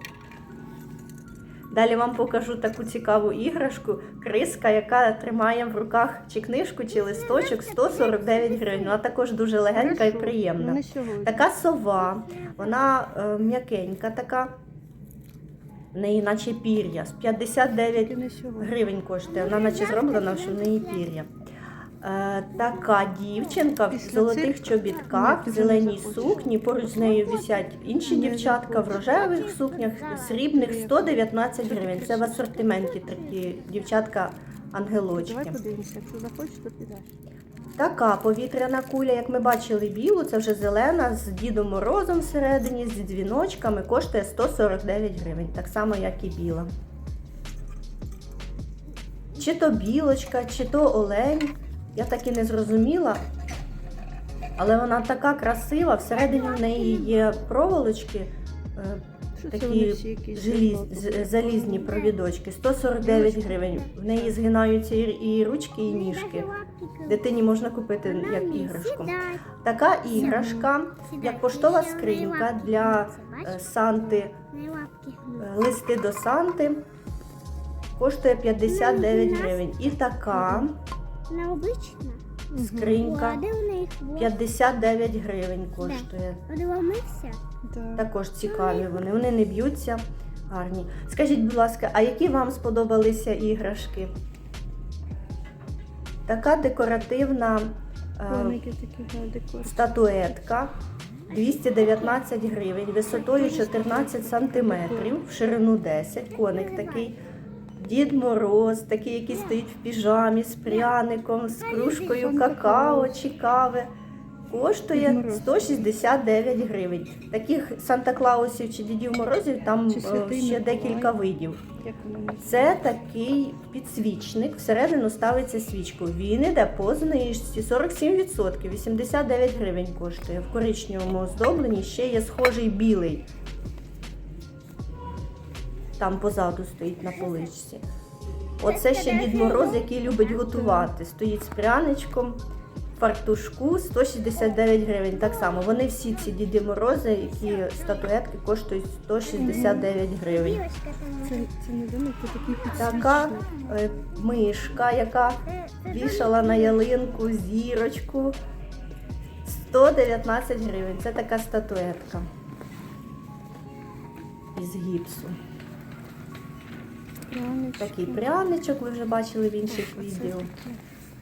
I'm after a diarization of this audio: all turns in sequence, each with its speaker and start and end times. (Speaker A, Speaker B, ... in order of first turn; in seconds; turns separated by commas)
Speaker A: 1.7-14.5, Speaker B: 6.9-9.0, Speaker C: 9.7-11.4, Speaker B: 12.0-12.9, Speaker A: 15.9-21.3, Speaker C: 17.9-18.8, Speaker B: 19.2-21.1, Speaker A: 22.0-35.6, Speaker C: 23.9-26.5, Speaker B: 26.1-28.1, Speaker C: 28.1-29.0, Speaker B: 28.9-30.5, Speaker C: 30.5-32.4, Speaker B: 32.4-34.0, Speaker C: 35.1-37.1, Speaker A: 37.8-46.7, Speaker A: 49.4-53.2, Speaker A: 54.6-66.5, Speaker B: 56.1-57.2, Speaker C: 59.4-61.8, Speaker B: 61.7-62.2, Speaker B: 63.2-63.9, Speaker B: 65.8-67.3, Speaker A: 67.1-74.4, Speaker B: 68.0-69.5, Speaker C: 70.1-70.7, Speaker B: 70.2-70.4, Speaker B: 71.0-73.6, Speaker B: 74.5-75.5, Speaker A: 75.4-76.8, Speaker A: 78.0-80.8, Speaker B: 78.7-79.7, Speaker C: 80.3-80.7, Speaker B: 81.3-82.2, Speaker C: 82.5-83.0, Speaker A: 82.6-83.4, Speaker B: 82.9-84.4, Speaker A: 84.2-86.4, Speaker B: 85.8-87.4, Speaker C: 87.6-88.1, Speaker A: 88.0-94.1, Speaker B: 88.4-89.0, Speaker A: 96.3-98.6, Speaker C: 98.3-99.9, Speaker A: 99.6-100.8, Speaker A: 101.3-107.2, Speaker B: 101.6-102.2, Speaker C: 103.1-105.2, Speaker B: 106.3-107.1, Speaker A: 107.8-113.9, Speaker B: 109.3-109.6, Speaker B: 110.7-110.9, Speaker B: 111.5-112.2, Speaker C: 112.0-113.2, Speaker A: 114.5-121.6, Speaker C: 114.9-115.8, Speaker C: 119.9-121.2, Speaker C: 121.8-122.8, Speaker A: 122.4-133.3, Speaker A: 136.0-137.8, Speaker B: 137.0-137.5, Speaker A: 138.6-142.4, Speaker B: 138.6-140.4, Speaker C: 140.5-140.9, Speaker A: 143.0-150.6, Speaker B: 145.1-145.7, Speaker B: 147.3-148.1, Speaker B: 149.2-149.8, Speaker C: 149.4-149.9, Speaker B: 150.3-151.4, Speaker C: 151.2-153.5, Speaker A: 152.8-158.3, Speaker B: 155.4-156.8, Speaker A: 159.4-162.3, Speaker A: 164.6-165.4, Speaker C: 167.3-168.3, Speaker A: 167.8-170.5, Speaker C: 169.7-170.8